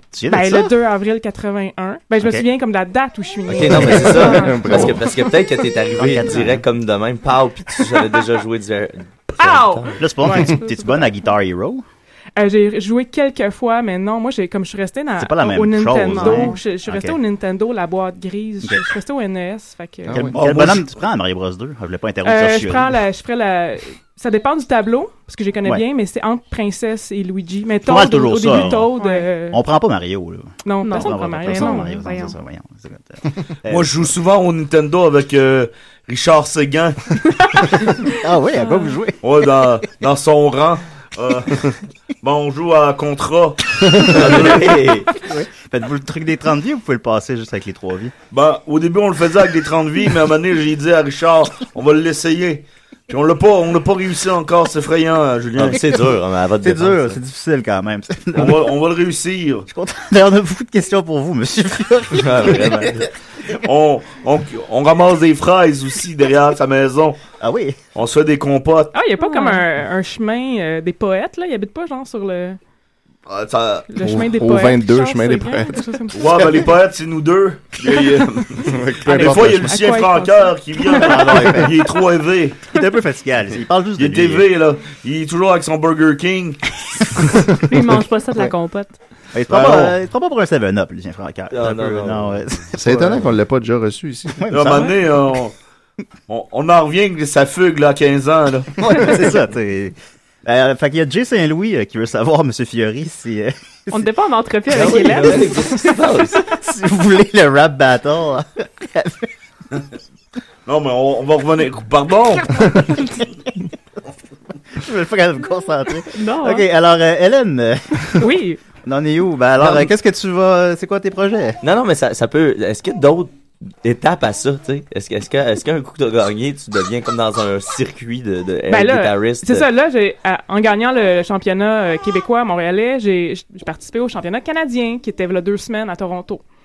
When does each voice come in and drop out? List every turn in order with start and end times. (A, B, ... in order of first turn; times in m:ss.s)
0:00.1-0:00.7 A
0:00.3-0:04.9 B
0:03.5-0:10.0 C
0:03.8-0:05.0 D
0:06.0-0:06.6 A
0:09.4-0:11.0 B
0:10.0-0:11.8 A
0:12.4-0:20.3 B
0:15.2-0:17.2 A
0:16.2-0:16.5 E
0:20.1-0:20.4 D
0:20.1-0:23.0 A
0:20.3-0:20.9 F
0:22.2-0:29.6 B
0:27.8-0:28.9 A
0:29.0-0:29.3 E
0:29.5-0:34.1 A
0:30.6-0:32.0 B
0:30.8-0:32.4 E
0:33.7-0:37.0 F
0:38.1-0:39.2 A
0:38.6-0:39.0 E
0:39.2-0:41.7 F
0:42.2-0:44.5 F
0:44.0-0:45.1 C
0:45.2-0:48.1 A
0:48.3-0:55.8 F
0:55.6-0:57.2 C
0:56.6-0:58.7 A
0:58.4-0:59.7 F
0:59.7-1:03.0 A
1:02.1-1:03.1 C
1:03.6-1:07.2 F
1:07.4-1:07.8 A
1:08.0-1:08.9 F
1:08.9-1:12.6 B
1:09.2-1:09.6 E
1:13.3-1:13.9 F
1:13.9-1:16.4 B
1:14.0-1:15.9 D
1:16.1-1:22.6 F
1:18.0-1:21.6 B
1:18.6-1:19.7 D
1:20.9-1:21.8 A
1:22.7-1:24.5 A
1:24.0-1:26.6 F
1:27.6-1:29.0 E
1:29.3-1:33.3 A
1:29.5-1:29.9 F
1:31.5-1:32.4 C
1:32.8-1:34.4 D
1:34.4-1:35.2 A
1:34.5-1:35.6 F
1:36.3-1:38.8 F
1:38.8-1:44.0 A
1:43.9-1:45.8 E
1:44.7-1:46.4 C
1:46.5-1:49.3 A
1:50.7-1:52.6 F
1:54.8-1:58.3 A
1:56.1-1:56.7 E
1:58.2-1:58.6 B
1:58.8-2:01.6 A
1:59.6-1:59.9 C
2:01.6-2:03.3 C
2:03.8-2:09.7 C
2:08.7-2:16.4 B